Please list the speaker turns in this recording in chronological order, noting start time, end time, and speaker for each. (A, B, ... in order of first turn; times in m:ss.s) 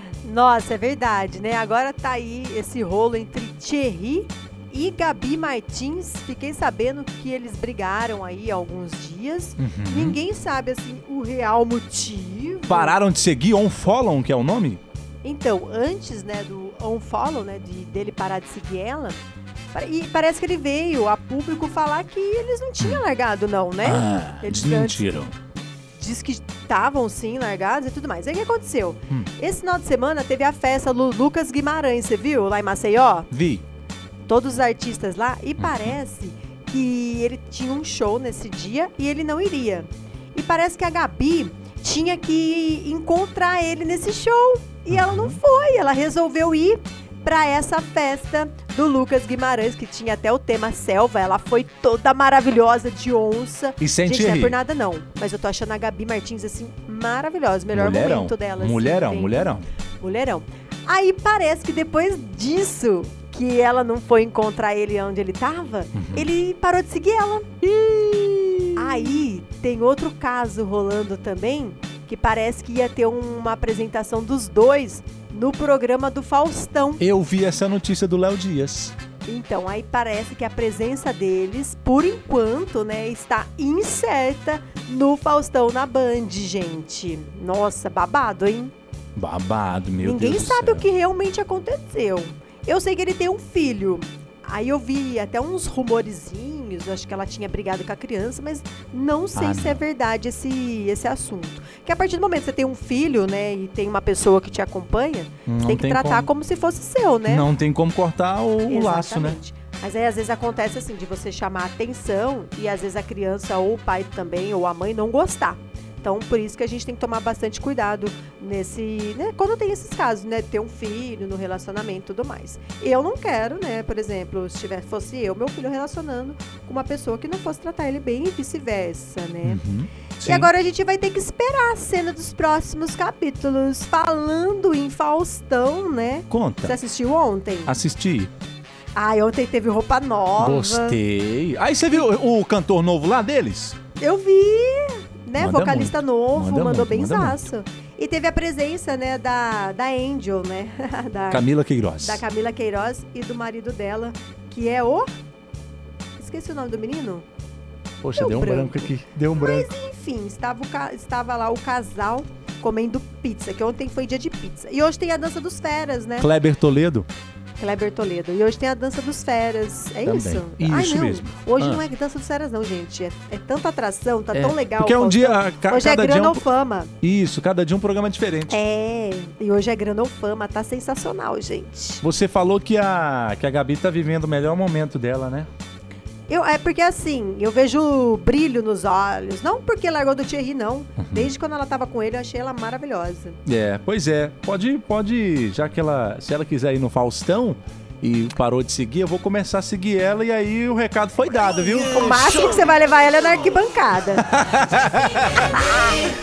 0:00.2-0:13.0 A
0:09.6-0:10.2 B
0:12.7-0:14.8 B
0:15.2-0:19.2 A
0:19.7-0:25.2 A
0:23.8-0:25.3 B
0:26.0-0:33.3 A
0:33.3-0:33.6 B
0:34.3-1:07.6 A
0:35.6-0:36.0 B
0:44.9-0:45.4 B
0:53.8-0:54.6 B
0:57.7-0:59.7 B
1:05.9-1:06.3 B
1:07.6-1:09.2 B
1:08.7-1:17.0 A
1:17.0-1:18.9 B
1:19.2-1:28.7 A
1:29.2-1:30.8 B
1:30.0-1:47.5 A
1:39.4-1:39.8 B
1:45.5-1:46.3 B
1:47.2-1:49.4 B
1:48.7-2:09.6 A
2:09.4-2:10.5 B
2:10.2-2:17.7 A
2:16.3-2:16.8 B
2:17.6-2:18.3 B
2:18.9-2:21.0 A
2:20.4-2:23.8 B
2:24.0-2:31.5 A
2:25.4-2:27.4 B
2:31.3-2:32.2 B
2:32.0-2:35.1 A
2:36.2-2:37.2 A
2:38.0-2:39.7 B
2:38.2-2:46.3 A
2:46.2-2:47.1 B
2:47.6-2:56.9 A
2:50.0-2:51.8 B
2:54.3-2:56.4 B
2:57.0-2:58.6 B
2:58.5-3:02.0 A
3:02.0-3:05.5 B
3:06.3-3:13.4 A
3:11.0-3:11.3 B
3:13.4-3:22.6 B
3:21.8-3:24.3 A
3:24.2-3:25.5 B
3:25.6-3:25.9 A